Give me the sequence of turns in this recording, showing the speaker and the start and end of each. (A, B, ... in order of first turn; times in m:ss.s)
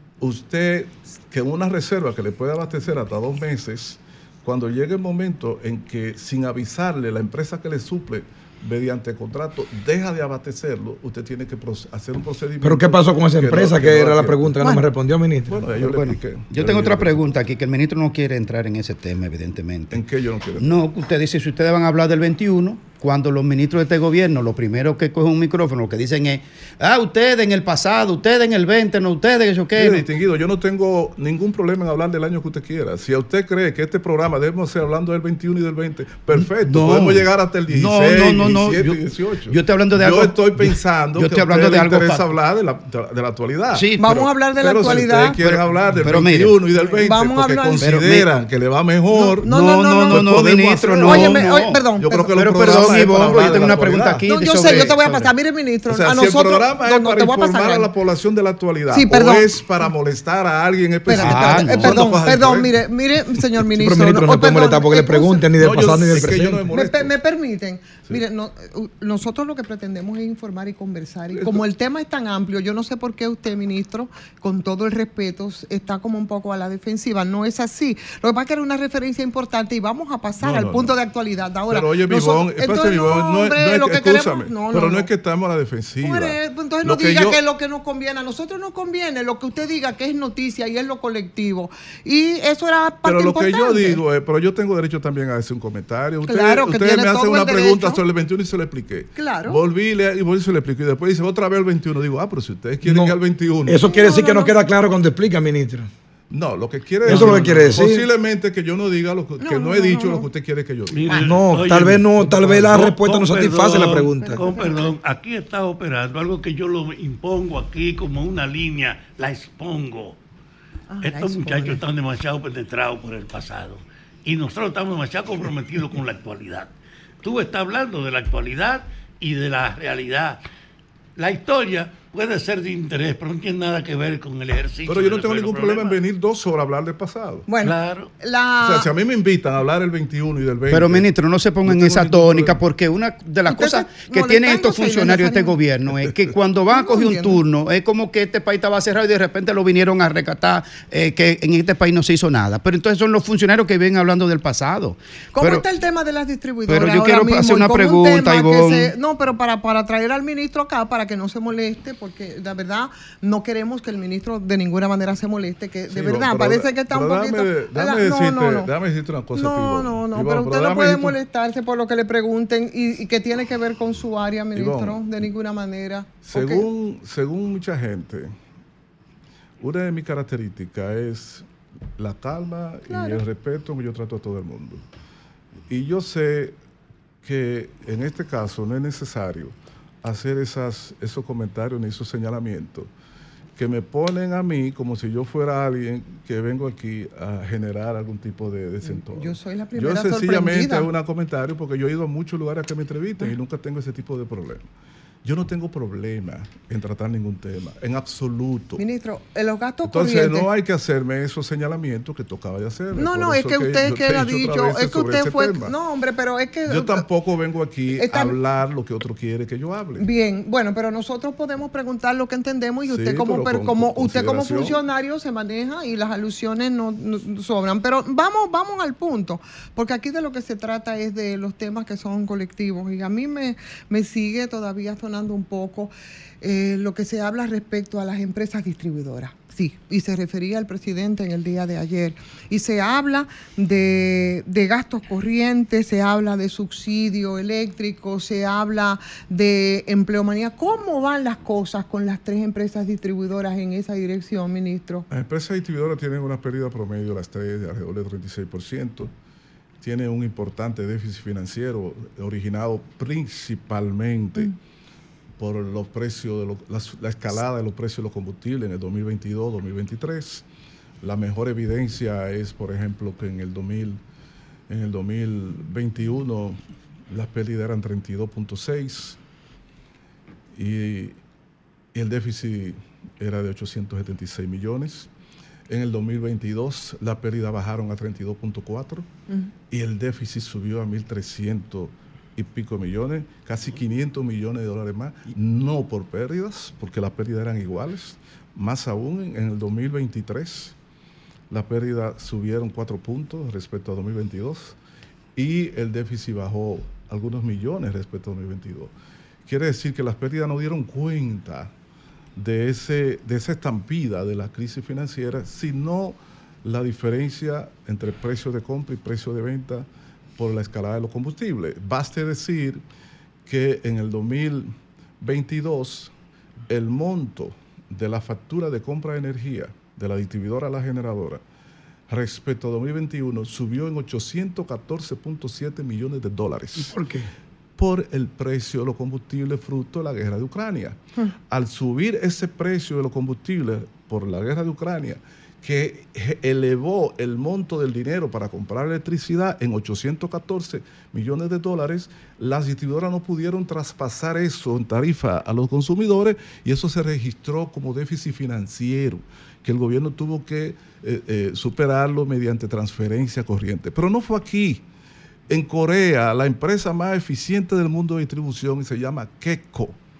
0:00.2-0:14.6 A
0:12.6-0:15.6 B
0:15.4-0:17.2 A
0:15.8-0:20.0 C
0:19.9-0:20.8 A
0:20.5-0:30.1 C
0:29.8-0:43.9 A
0:36.3-0:42.3 C
0:43.7-0:44.3 C
0:44.0-0:45.4 D
0:44.4-0:55.3 A
0:45.4-0:46.6 C
0:46.8-0:48.0 D
0:47.8-0:48.3 C
0:49.1-0:50.3 D
0:49.5-0:55.0 C
0:51.0-0:52.4 D
0:54.2-0:57.9 D
0:55.8-1:02.8 A
0:58.9-0:59.9 D
1:01.1-1:05.5 D
1:01.2-1:02.0 C
1:03.7-1:06.6 B
1:05.5-1:07.2 A
1:06.7-1:25.1 D
1:11.3-1:11.6 A
1:20.4-1:20.9 A
1:21.7-1:27.4 A
1:26.0-1:34.0 D
1:33.0-1:43.9 A
1:36.2-1:38.0 D
1:39.2-1:39.6 D
1:42.8-1:45.9 B
1:43.8-1:44.5 D
1:46.3-1:51.2 A
1:47.0-1:48.1 B
1:47.1-1:47.7 E
1:49.4-1:50.3 D
1:50.9-2:00.2 E
1:51.2-1:54.5 B
1:54.2-1:54.9 D
2:00.9-2:01.8 D
2:01.0-2:06.7 E
2:07.2-2:10.4 E
2:11.2-2:16.0 E
2:14.8-2:17.4 A
2:17.5-2:18.9 D
2:17.6-2:18.1 E
2:18.6-2:21.0 A
2:20.7-2:35.6 C
2:21.6-2:22.6 A
2:23.5-2:25.6 D
2:26.7-2:27.4 D
2:35.4-2:48.7 D
2:36.7-2:38.9 C
2:45.9-2:51.2 A
2:49.3-2:56.6 D
2:54.5-2:55.0 A
2:56.2-2:58.3 A
2:59.6-3:01.4 A
3:02.0-3:04.8 A
3:02.9-3:03.2 D
3:05.7-3:06.6 A
3:07.2-3:12.9 A
3:13.6-3:24.6 A
3:18.8-3:20.9 D
3:25.2-3:28.8 A
3:28.8-3:30.5 D
3:29.8-3:35.7 A
3:32.9-3:37.0 D
3:36.6-3:40.1 A
3:37.9-3:38.4 D
3:40.0-4:15.0 D
3:42.8-3:44.8 A
4:15.1-4:19.1 A
4:19.8-4:24.5 A
4:25.4-4:30.4 A
4:31.0-4:34.0 A
4:34.7-4:36.6 A
4:37.1-4:39.2 A
4:40.5-4:41.2 A
4:41.9-4:45.1 A
4:45.7-4:49.1 A
4:49.7-5:00.7 A
5:01.5-5:04.8 A
5:05.4-5:08.9 A
5:09.4-5:11.7 A
5:12.4-5:22.8 A
5:23.4-5:26.1 A
5:26.7-5:31.4 A
5:32.1-5:37.0 A
5:36.8-5:37.3 B
5:37.8-5:41.0 A
5:41.5-6:04.8 A
6:05.5-6:10.0 A